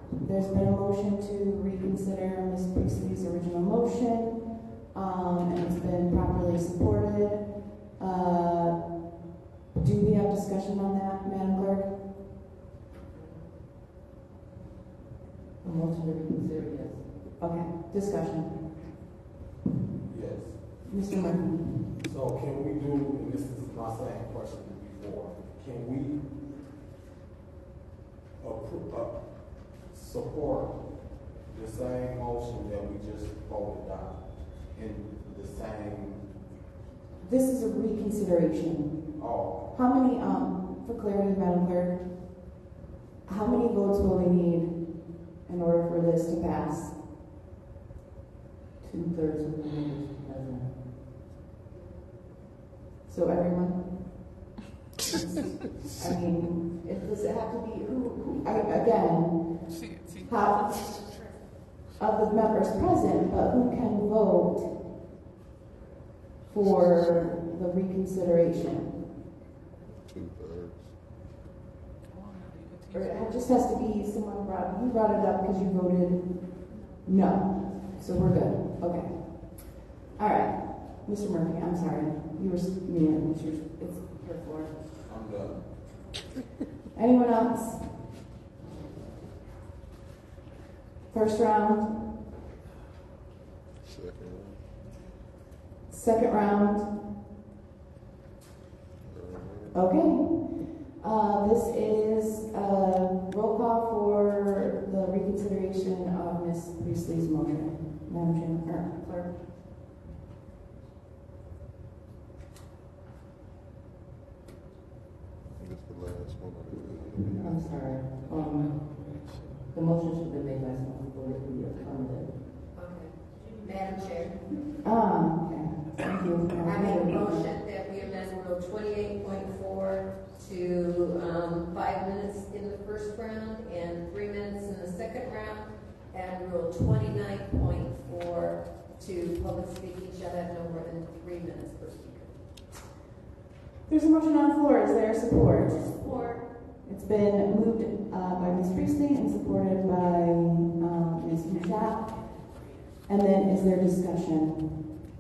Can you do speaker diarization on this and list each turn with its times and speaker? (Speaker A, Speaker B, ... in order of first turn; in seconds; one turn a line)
Speaker A: 0.1-9.0
Speaker A: 9.7-11.9
Speaker B: 15.6-17.1
Speaker A: 17.4-18.6
Speaker C: 20.1-20.6
Speaker A: 20.9-21.9
Speaker C: 22.0-26.2
Speaker C: 28.4-29.2
Speaker C: 29.9-30.8
Speaker C: 31.5-34.2
Speaker C: 34.7-36.2
Speaker A: 37.2-39.1
Speaker C: 39.2-39.7
Speaker A: 39.7-42.0
Speaker A: 43.3-47.0
Speaker B: 48.8-50.8
Speaker A: 53.1-54.0
Speaker A: 55.3-61.1
Speaker A: 62.0-64.8
Speaker A: 66.5-69.0
Speaker D: 70.1-71.0
Speaker A: 72.9-84.7
Speaker C: 85.1-85.6
Speaker A: 87.0-88.0
Speaker A: 91.1-92.1
Speaker D: 93.8-94.6
Speaker A: 95.9-96.9
Speaker D: 99.1-99.8
Speaker A: 99.7-109.1
Speaker D: 115.5-117.8
Speaker B: 117.4-119.1
Speaker B: 119.7-122.4
Speaker E: 122.7-124.4
Speaker A: 124.8-127.6
Speaker E: 126.6-142.3
Speaker A: 143.9-145.9
Speaker E: 145.6-146.5
Speaker A: 146.8-152.1
Speaker A: 153.1-154.8